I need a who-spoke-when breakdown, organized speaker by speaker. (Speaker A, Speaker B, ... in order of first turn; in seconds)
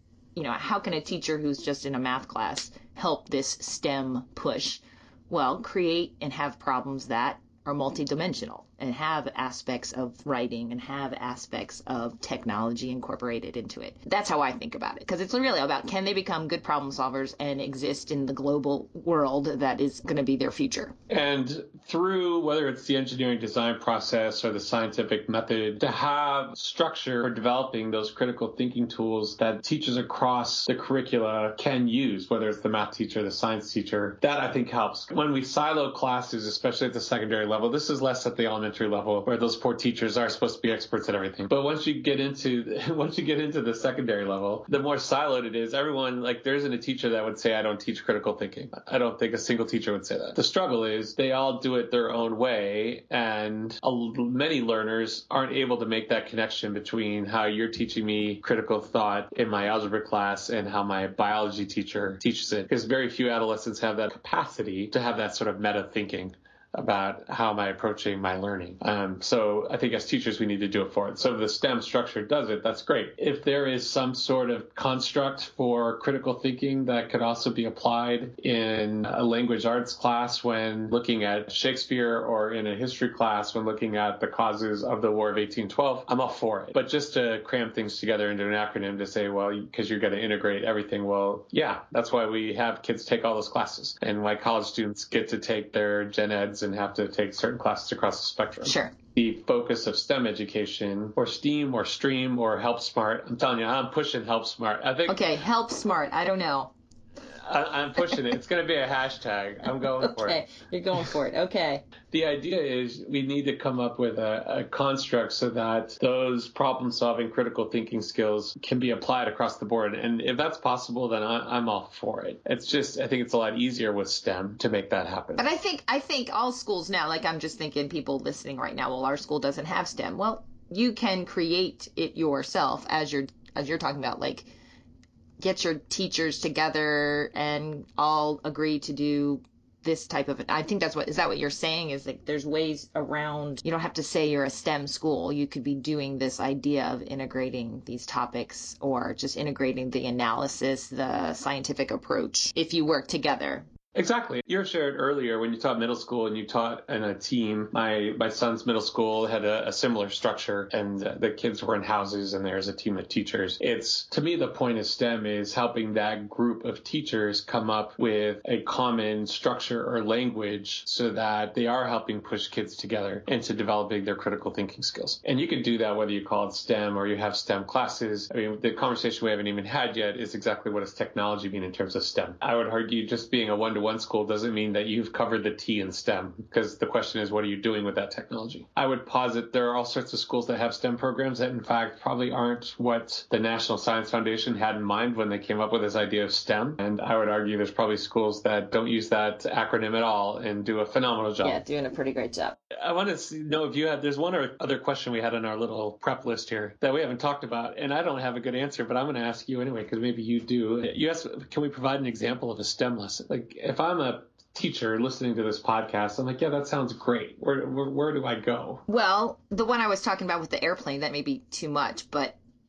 Speaker A: 0.4-20.9, 98.7-98.9, 105.1-106.7, 110.0-111.8, 125.4-134.5, 135.4-153.7, 201.4-202.6, 218.9-222.4
Speaker B: 21.1-105.2, 107.5-110.4, 112.1-125.4, 153.9-201.6, 202.7-218.8